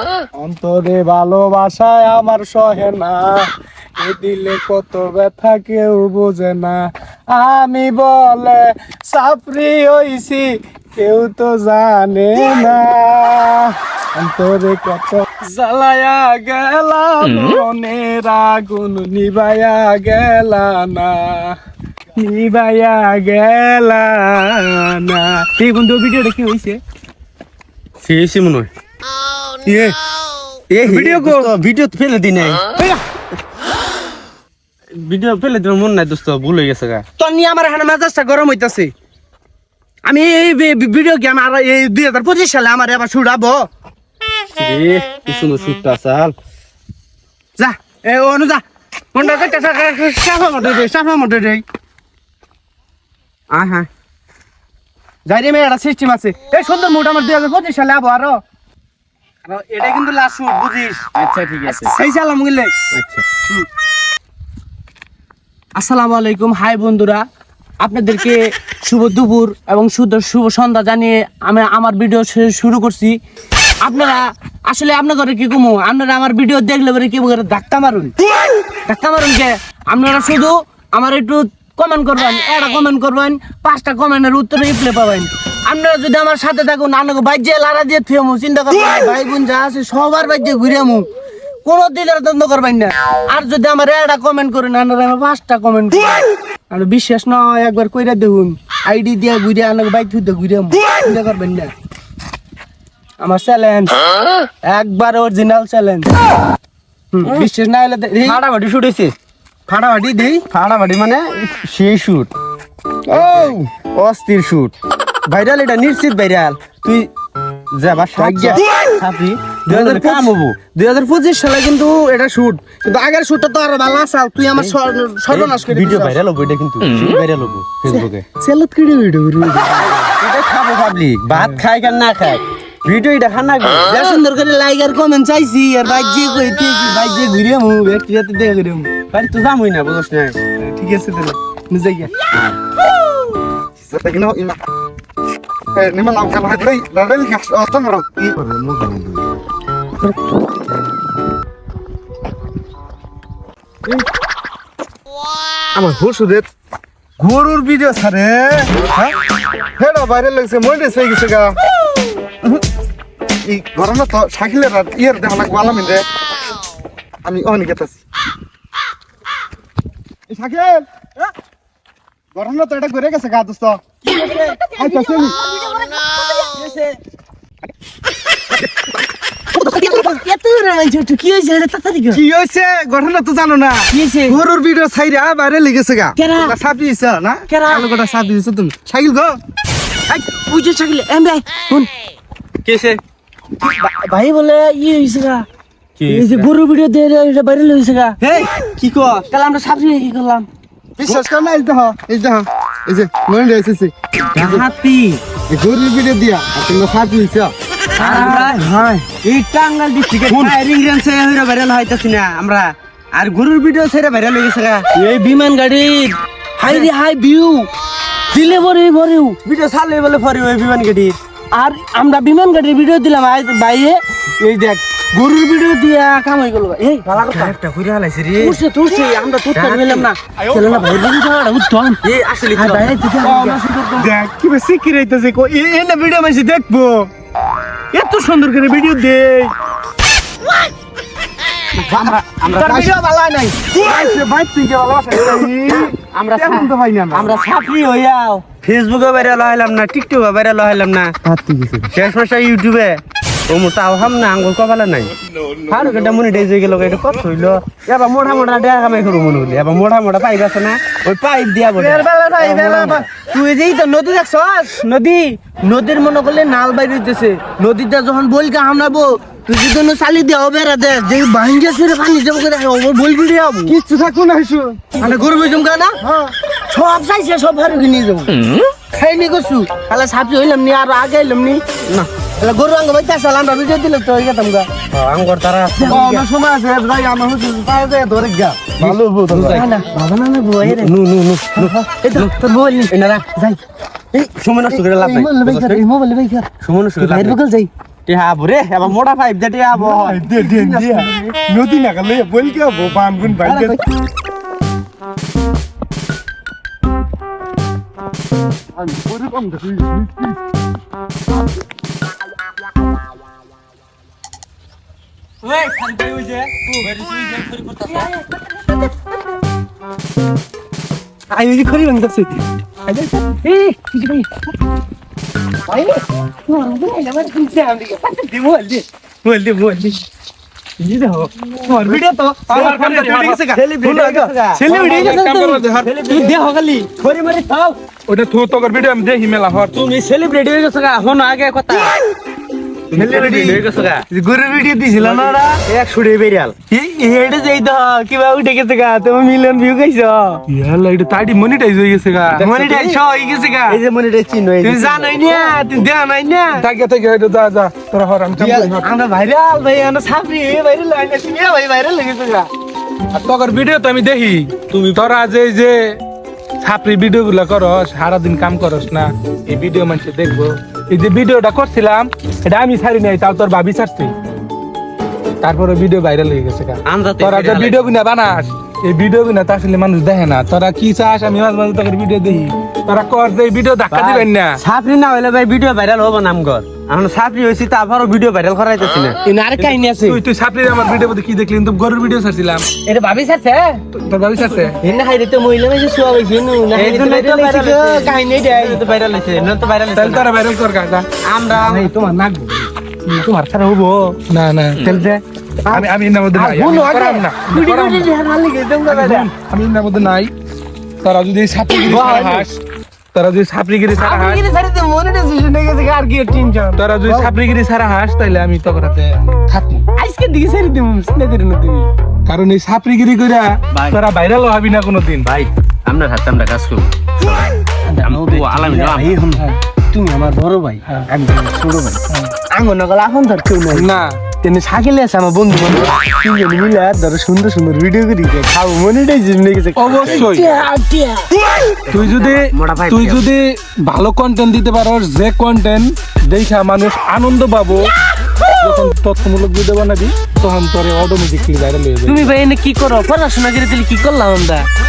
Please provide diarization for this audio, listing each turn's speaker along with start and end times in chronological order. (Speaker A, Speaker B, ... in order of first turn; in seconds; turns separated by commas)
Speaker A: 0.3-21.6, Speaker A: 22.1-26.8, Speaker B: 28.0-28.7, Speaker B: 29.6-29.9, Speaker B: 30.7-32.8, Speaker A: 30.8-31.5, Speaker B: 35.0-37.0, Speaker A: 37.2-38.9, Speaker A: 40.0-43.6, Speaker B: 44.5-46.3, Speaker A: 47.6-48.6, Speaker B: 49.1-50.6, Speaker A: 49.1-51.6, Speaker B: 53.5-53.9, Speaker A: 55.3-58.4, Speaker A: 59.5-61.1, Speaker B: 61.1-61.9, Speaker A: 61.6-62.7, Speaker B: 62.9-63.2, Speaker A: 65.8-67.2, Speaker A: 67.8-73.2, Speaker A: 73.8-78.1, Speaker A: 78.8-91.0, Speaker A: 91.6-101.7, Speaker A: 103.2-103.9, Speaker A: 104.6-106.1, Speaker A: 107.1-109.1, Speaker B: 108.1-109.1, Speaker A: 109.7-110.4, Speaker B: 110.5-112.3, Speaker B: 113.1-114.7, Speaker B: 115.2-117.1, Speaker B: 117.7-120.6, Speaker A: 118.2-118.6, Speaker A: 119.7-126.2, Speaker B: 124.5-128.3, Speaker A: 127.8-130.1, Speaker B: 130.1-134.2, Speaker A: 133.8-138.9, Speaker B: 139.1-140.4, Speaker A: 140.6-142.1, Speaker C: 143.8-144.6, Speaker C: 145.7-149.2, Speaker C: 155.7-156.5, Speaker C: 157.2-159.1, Speaker C: 159.8-161.6, Speaker C: 163.4-166.1, Speaker C: 167.2-168.0, Speaker C: 170.3-170.9, Speaker C: 172.3-173.8, Speaker A: 174.0-177.0, Speaker C: 174.8-175.4, Speaker A: 179.5-182.2, Speaker C: 182.1-189.3, Speaker A: 183.9-184.4, Speaker A: 186.2-186.6, Speaker A: 187.5-187.9, Speaker A: 190.1-191.9, Speaker B: 192.6-193.0, Speaker A: 193.6-195.4, Speaker B: 196.0-196.5, Speaker A: 196.1-198.2, Speaker B: 198.2-199.3, Speaker A: 199.3-200.5, Speaker C: 201.0-204.6, Speaker B: 204.3-205.2, Speaker C: 205.5-206.7, Speaker B: 206.5-208.6, Speaker A: 208.0-209.1, Speaker B: 209.2-214.9, Speaker A: 214.9-217.7, Speaker A: 218.3-219.4, Speaker B: 219.4-221.2, Speaker A: 221.5-227.6, Speaker B: 227.1-228.6, Speaker A: 228.4-232.0, Speaker B: 229.5-230.1, Speaker D: 230.5-230.8, Speaker B: 232.0-232.9, Speaker A: 232.5-237.1, Speaker C: 233.2-235.0, Speaker A: 237.9-239.5, Speaker B: 241.8-242.9, Speaker A: 242.6-243.7, Speaker C: 243.6-247.4, Speaker B: 246.0-255.1, Speaker C: 251.3-251.7, Speaker B: 255.7-263.0, Speaker A: 261.8-273.8, Speaker C: 273.7-274.9, Speaker A: 275.0-276.1, Speaker A: 276.7-281.6, Speaker A: 282.4-284.7, Speaker B: 284.9-286.0, Speaker A: 285.8-286.3, Speaker C: 285.9-289.6, Speaker B: 288.8-289.6, Speaker A: 288.8-290.9, Speaker B: 290.6-292.3, Speaker A: 291.6-293.6, Speaker B: 292.9-293.2, Speaker B: 294.1-295.8, Speaker A: 294.7-297.7, Speaker B: 296.6-297.4, Speaker B: 298.1-301.1, Speaker C: 300.0-303.5, Speaker A: 300.4-301.0, Speaker A: 303.4-303.8, Speaker B: 303.4-303.8, Speaker C: 308.8-310.4, Speaker B: 315.6-318.1, Speaker A: 315.7-316.9, Speaker A: 317.9-318.9, Speaker A: 321.3-324.3, Speaker A: 325.7-330.0, Speaker A: 330.8-336.8, Speaker B: 331.8-337.8, Speaker D: 332.5-333.4, Speaker D: 334.6-335.9, Speaker D: 338.1-339.8, Speaker B: 339.7-341.9, Speaker B: 342.9-344.0, Speaker A: 342.9-345.6, Speaker B: 345.0-346.7, Speaker A: 346.7-348.8, Speaker B: 348.6-350.4, Speaker D: 350.5-352.5, Speaker A: 352.4-353.8, Speaker B: 352.4-353.0, Speaker B: 353.7-355.6, Speaker A: 354.6-356.6, Speaker D: 356.6-358.8, Speaker A: 358.3-362.5, Speaker D: 363.1-366.0, Speaker B: 364.7-365.1, Speaker D: 366.6-374.1, Speaker D: 375.4-384.6, Speaker B: 376.9-377.8, Speaker B: 383.9-389.2, Speaker A: 389.2-390.2, Speaker D: 390.1-392.7, Speaker A: 392.8-393.9, Speaker D: 393.9-394.8, Speaker A: 394.4-398.8, Speaker B: 396.7-400.2, Speaker D: 399.9-401.1, Speaker B: 401.2-401.9, Speaker A: 401.5-404.2, Speaker D: 404.3-404.9, Speaker A: 404.8-409.3, Speaker D: 405.7-408.1, Speaker D: 408.9-410.3, Speaker D: 411.0-412.6, Speaker A: 411.8-412.5, Speaker D: 413.1-414.4, Speaker A: 413.9-417.3, Speaker D: 416.8-419.8, Speaker A: 419.9-421.9, Speaker D: 422.2-425.3, Speaker B: 423.7-424.0, Speaker B: 425.2-429.3, Speaker A: 427.8-441.3, Speaker D: 433.7-434.1, Speaker D: 439.8-440.5, Speaker B: 440.0-440.2, Speaker B: 441.9-443.2, Speaker D: 441.9-447.9, Speaker D: 448.6-452.3, Speaker A: 452.1-454.6